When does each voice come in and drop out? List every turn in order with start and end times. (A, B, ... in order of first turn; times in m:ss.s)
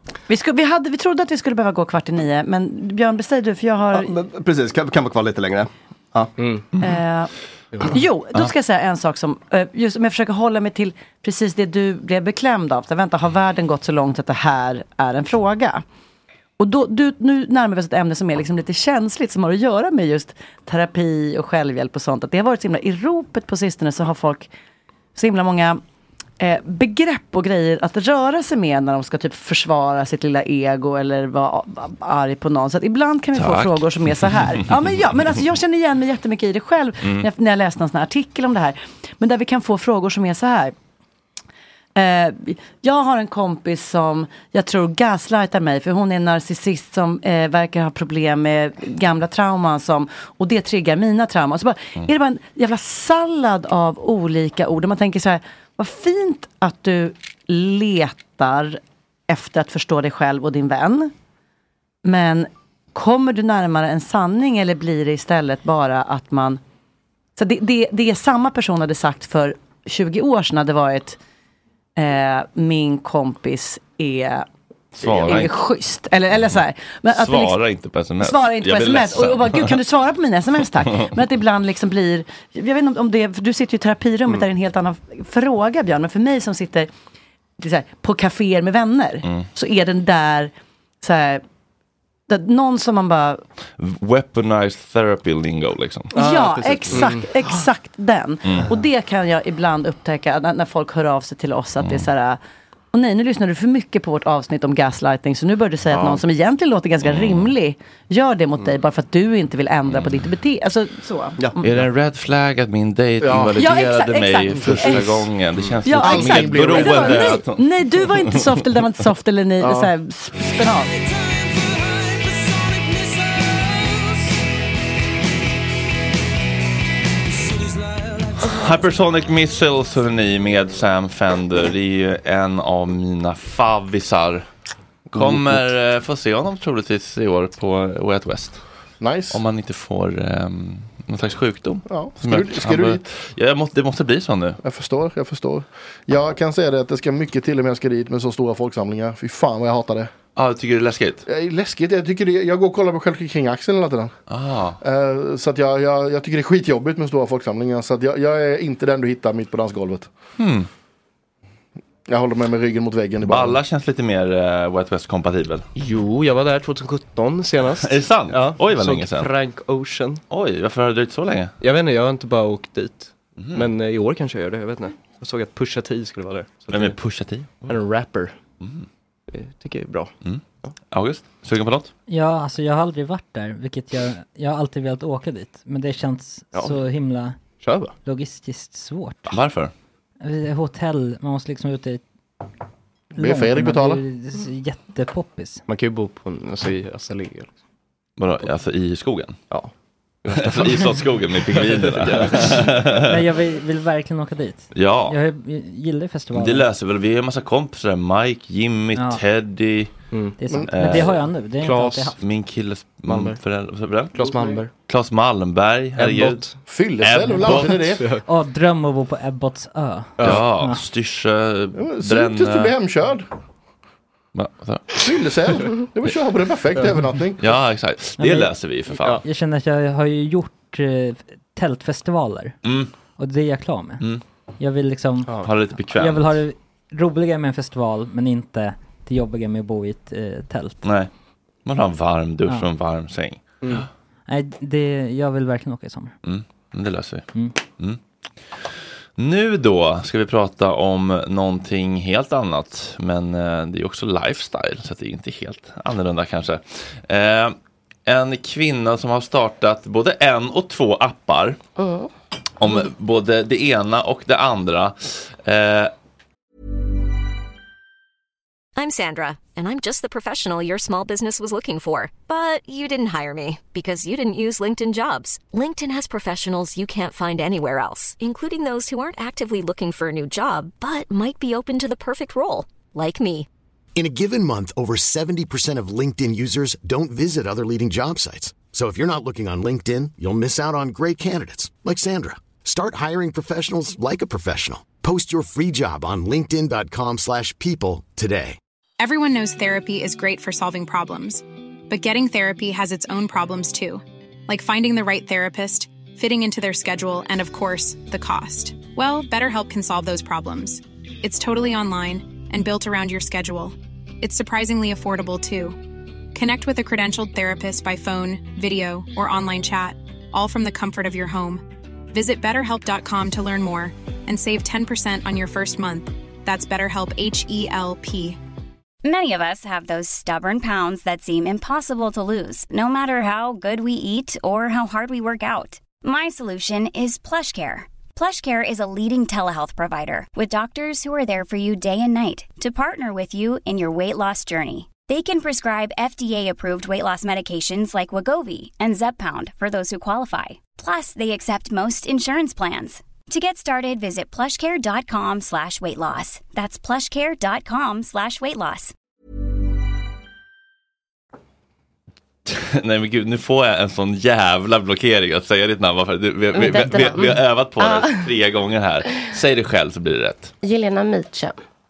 0:00.3-0:04.1 A
0:03.9-0:06.3 B
0:06.4-0:06.6 C
0:06.8-0:15.8 A
0:16.6-0:24.5 A
0:25.2-0:25.8 A
0:26.4-0:40.7 A
0:33.3-0:33.8 D
0:41.9-1:01.1 A
1:02.0-1:06.6 A
1:07.4-1:11.2 A
1:12.0-1:14.4 A
1:15.0-1:15.5 D
1:15.0-1:17.6 A
1:17.1-1:19.7 D
1:18.2-1:26.9 A
1:27.6-1:30.5 A
1:31.0-1:31.4 A
1:32.3-1:33.4 A
1:33.8-1:36.1 D
1:36.1-1:42.4 A
1:36.2-1:37.2 B
1:36.9-1:37.2 C
1:41.8-1:42.1 D
1:42.9-1:51.7 A
1:47.0-1:47.5 D
1:49.9-1:50.3 D
1:51.6-1:58.2 D
1:53.2-1:53.6 E
1:53.5-1:55.3 A
1:55.8-2:00.9 A
1:56.0-1:57.4 E
1:59.6-1:59.9 E
2:08.4-2:14.4 D
2:15.1-2:15.6 E
2:15.1-2:18.6 D
2:19.0-2:19.4 E
2:19.3-2:24.6 D
2:21.9-2:23.0 E
2:24.6-2:30.1 E
2:30.4-2:31.2 D
2:31.3-2:34.1 E
2:34.3-2:34.8 D
2:34.8-2:40.1 E
2:40.4-2:40.7 D
2:42.1-2:43.6 E
2:43.2-2:45.6 D
2:45.7-2:50.2 C
2:47.8-2:49.3 D
2:50.3-2:51.5 D
2:51.6-2:57.0 C
2:53.4-2:53.7 D
2:56.7-2:57.5 D
2:57.6-2:58.4 C
2:59.3-3:00.1 C
3:00.2-3:01.9 D
3:02.1-3:07.4 F
3:07.6-3:07.9 C
3:08.0-3:09.4 F
3:09.3-3:09.7 D
3:10.2-3:12.0 F
3:13.1-3:15.6 F
3:13.2-3:14.0 E
3:15.7-3:17.5 C
3:18.2-3:19.4 D
3:20.2-3:22.7 C
3:20.3-3:23.1 D
3:23.0-3:26.6 F
3:24.7-3:25.2 D
3:26.3-3:29.9 D
3:29.0-3:29.2 F
3:30.4-3:32.2 F
3:30.7-3:31.1 D
3:31.0-3:32.1 C
3:32.2-3:37.8 D
3:33.1-3:33.4 C
3:34.1-3:34.7 C
3:36.0-3:36.6 C
3:36.7-3:38.0 E
3:38.2-3:40.8 F
3:40.2-3:42.7 D
3:41.8-3:43.2 E
3:44.3-3:44.8 D
3:44.9-3:47.4 E
3:47.4-3:49.2 D
3:48.2-3:52.6 F
3:52.6-3:52.9 D
3:53.2-3:54.0 F
3:54.6-4:00.8 F
3:55.4-3:56.3 D
4:00.8-4:01.1 D
4:01.6-4:03.8 D
4:04.3-4:06.1 F
4:06.2-4:07.2 D
4:09.2-4:17.5 D
4:18.0-4:21.6 D
4:21.8-4:22.1 G
4:22.6-4:25.9 D
4:28.8-4:43.5 H
4:44.0-4:58.6 I
4:59.0-5:15.8 J
5:16.3-5:28.4 J
5:29.0-5:58.9 K
6:02.5-6:10.5 D
6:06.5-6:08.3 G
6:10.6-6:11.6 G